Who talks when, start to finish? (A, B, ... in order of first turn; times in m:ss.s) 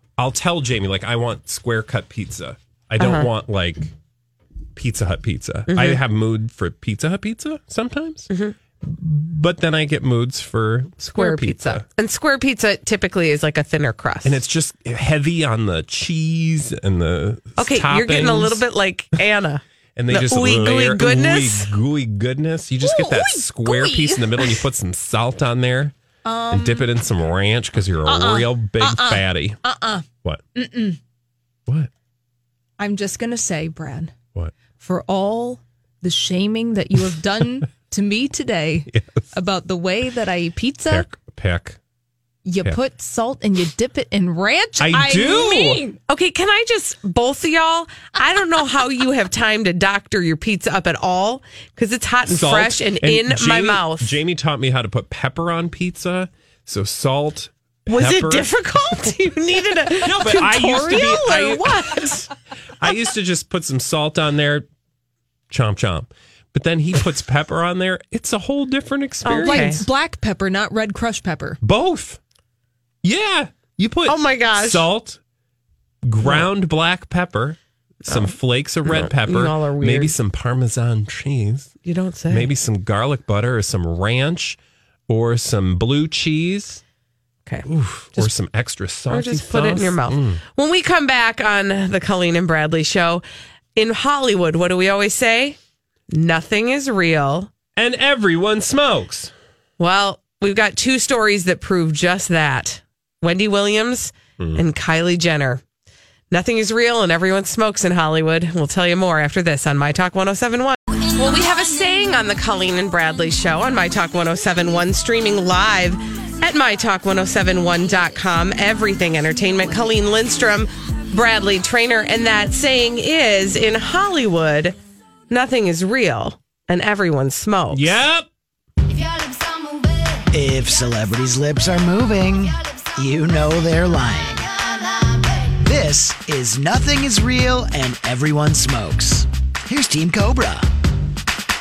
0:00.2-0:03.9 A
0:03.0-0:03.3 B
0:04.8-0:08.3 A
0:05.7-0:06.0 B
0:08.3-0:08.5 B
0:08.8-0:11.8 A
0:11.1-0:14.4 B
0:14.2-0:18.6 A
0:17.6-0:21.7 B
0:20.0-0:25.9 A
0:22.8-0:24.6 C
0:26.2-0:26.9 C
0:26.5-0:29.6 A
0:28.0-0:31.0 C
0:32.8-0:34.1 C
0:34.8-0:41.1 C
0:38.9-0:39.2 A
0:40.9-0:41.8 A
0:42.4-0:46.0 C
0:44.8-0:45.8 A
0:46.1-0:54.1 B
0:52.3-0:58.5 A
0:57.9-1:02.3 B
0:59.9-1:02.2 A
1:02.8-1:04.6 A
1:05.5-1:09.8 A
1:09.2-1:09.8 B
1:09.4-1:11.6 C
1:11.6-1:12.2 A
1:13.0-1:15.2 A
1:14.1-1:14.9 B
1:16.0-1:21.7 A
1:18.0-1:20.2 B
1:21.8-1:22.5 B
1:22.3-1:26.8 A
1:27.4-1:28.3 B
1:27.6-1:30.4 A
1:29.1-1:33.2 B
1:33.7-1:35.6 B
1:36.1-1:37.5 B
1:37.8-1:39.3 A
1:39.8-1:45.6 B
1:44.4-1:44.6 A
1:46.3-2:04.8 B
2:05.3-2:08.0 B
2:07.7-2:08.3 A
2:10.3-2:20.7 D